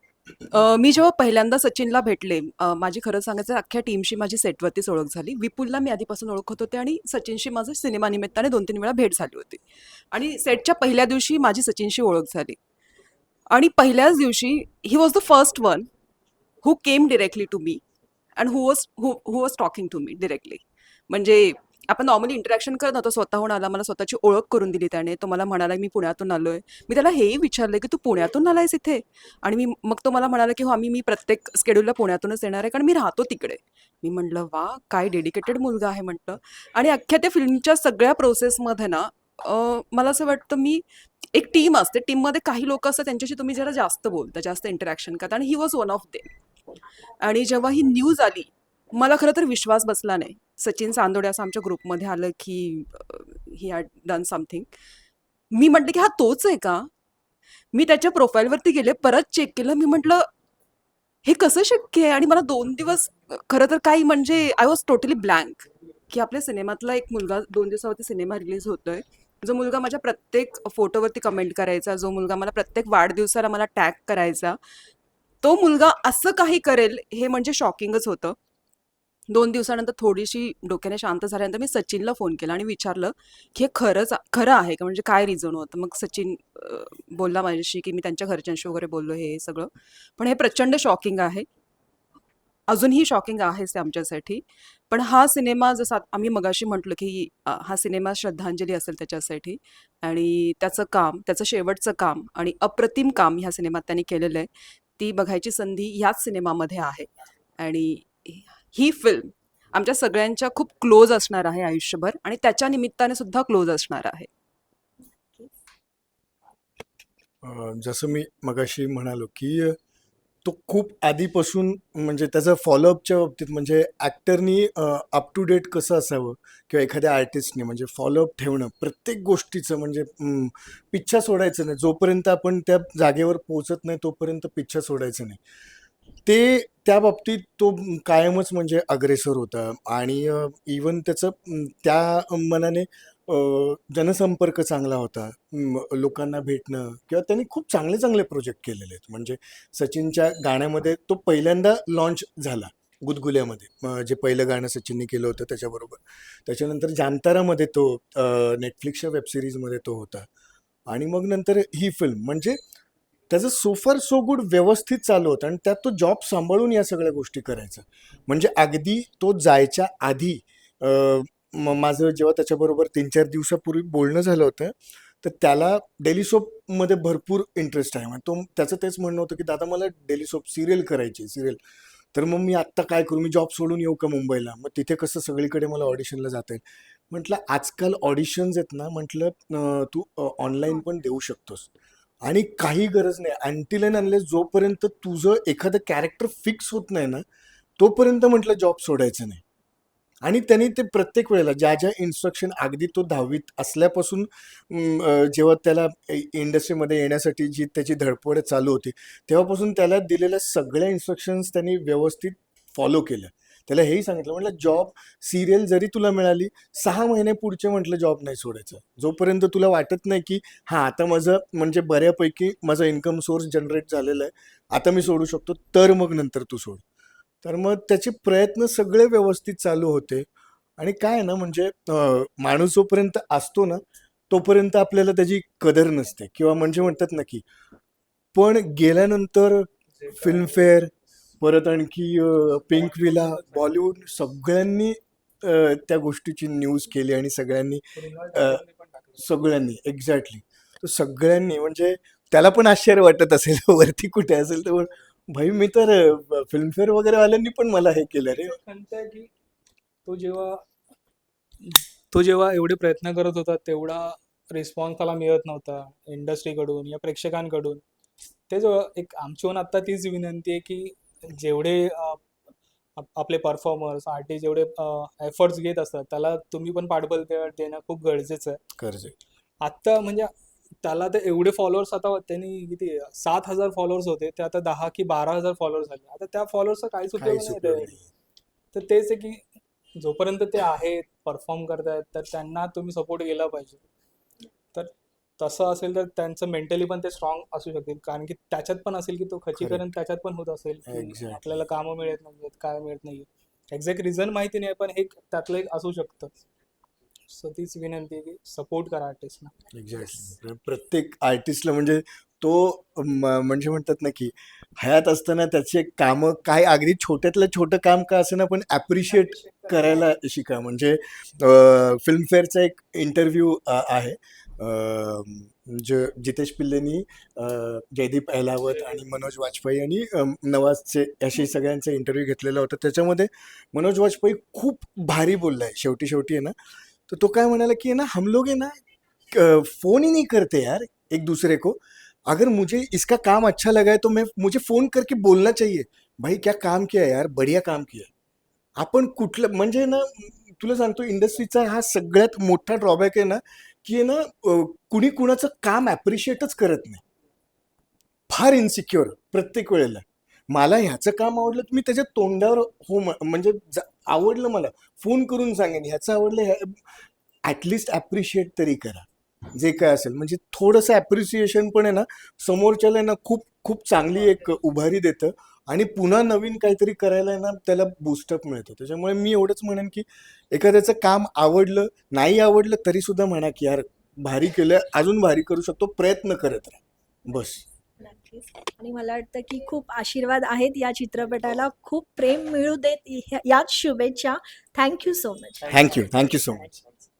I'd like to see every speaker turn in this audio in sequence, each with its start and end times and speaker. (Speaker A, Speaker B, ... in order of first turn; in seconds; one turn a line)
Speaker A: 0.5-12.6
Speaker A: 13.5-15.9
Speaker A: 16.6-17.8
Speaker A: 18.4-40.8
Speaker A: 41.3-46.3
Speaker A: 47.2-54.7
Speaker A: 55.5-56.9
Speaker A: 57.7-60.3
Speaker A: 61.2-74.6
Speaker A: 75.4-78.4
Speaker A: 79.3-91.5
Speaker A: 92.7-107.1
Speaker A: 107.6-114.3
Speaker B: 117.4-119.8
Speaker B: 120.4-135.4
Speaker B: 136.2-160.3
Speaker B: 160.9-162.6
Speaker B: 163.3-181.6
Speaker B: 182.1-191.7
Speaker B: 192.2-197.2
Speaker B: 197.8-199.4
Speaker B: 200.2-226.8
Speaker B: 227.4-237.4
Speaker B: 238.3-248.6
Speaker C: 239.9-240.7
Speaker C: 242.7-243.8
Speaker C: 247.9-249.4
Speaker B: 249.2-258.6
Speaker C: 258.3-259.3
Speaker C: 260.0-260.6
Speaker C: 261.6-267.8
Speaker C: 268.5-272.2
Speaker C: 273.0-278.6
Speaker B: 278.8-279.1
Speaker C: 279.6-280.3
Speaker C: 280.8-287.9
Speaker B: 287.1-288.1
Speaker C: 288.7-289.4
Speaker C: 290.0-293.8
Speaker C: 294.7-306.4
Speaker B: 299.6-299.8
Speaker B: 300.9-301.7
Speaker C: 307.3-309.5
Speaker B: 309.7-336.6
Speaker A: 319.4-319.8
Speaker B: 337.1-338.8
Speaker B: 339.3-348.1
Speaker B: 348.8-357.0
Speaker B: 358.3-366.8
Speaker B: 367.4-387.6
Speaker D: 388.0-395.9
Speaker B: 395.7-396.7